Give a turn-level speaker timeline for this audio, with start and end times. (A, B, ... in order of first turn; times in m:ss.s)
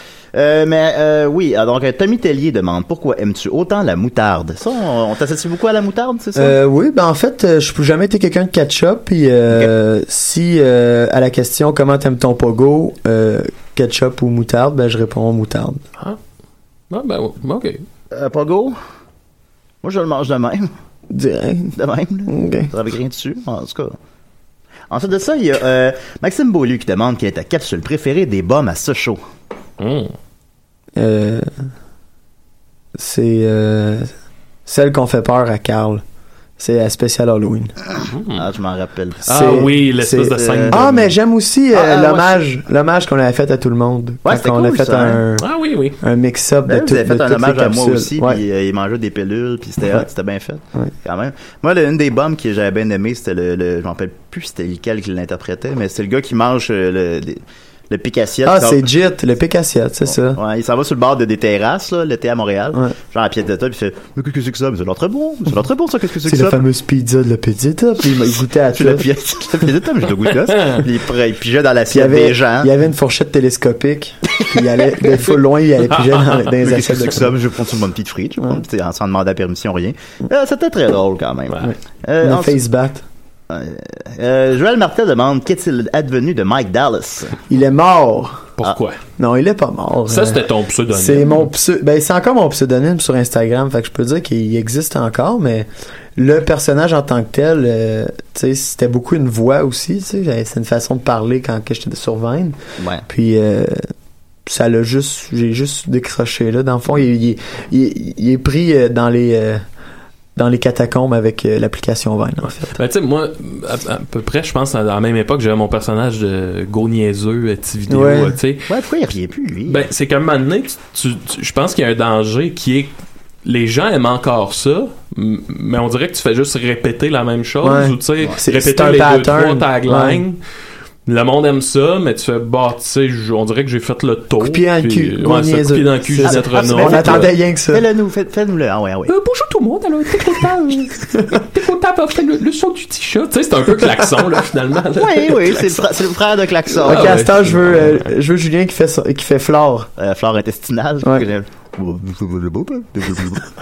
0:00.3-0:06.6 A
0:06.4-0:15.8 B
0:16.9-0:17.8 C
0:18.1-0:18.8 A
0:19.8-0:20.7 A
0:21.1-0:22.7 B
0:21.8-0:24.0 A
0:24.9-0:29.2 A
0:29.8-0:30.1 C
0:31.0-0:31.5 B
0:33.0-0:34.1 B
0:34.7-0:36.0 B
0:36.6-0:37.7 B
0:38.1-0:38.4 C
0:38.3-0:39.7 A
0:39.2-0:41.1 C
0:39.3-0:45.5 B
0:40.4-0:40.8 A
0:41.7-0:42.4 A
0:44.2-0:45.2 A
0:45.4-0:46.0 C
0:46.0-0:48.4 B
0:46.7-0:58.9 A
0:58.4-1:00.4 B
1:00.3-1:06.6 A
1:06.3-1:09.0 B
1:08.7-1:12.7 A
1:10.5-1:10.8 C
1:11.9-1:17.4 B
1:16.6-1:22.6 A
1:22.2-1:23.0 B
1:23.5-1:27.4 A
1:27.5-1:28.4 B
1:28.6-1:29.0 C
1:29.2-1:42.6 B
1:30.1-1:31.5 C
1:42.8-1:43.1 A
1:43.1-1:43.9 B
1:44.4-1:49.6 B
1:50.4-1:52.8 B
1:52.4-1:58.7 C
1:57.9-1:58.4 B
1:58.7-1:59.9 A
1:59.7-2:02.9 C
2:03.4-2:10.4 C
2:07.6-2:10.2 B
2:11.1-2:17.3 C
2:14.4-2:17.8 B
2:16.2-2:19.1 A
2:19.1-2:25.8 C
2:25.0-2:27.2 A
2:26.8-2:29.9 B
2:26.8-2:28.1 C
2:30.0-2:33.5 A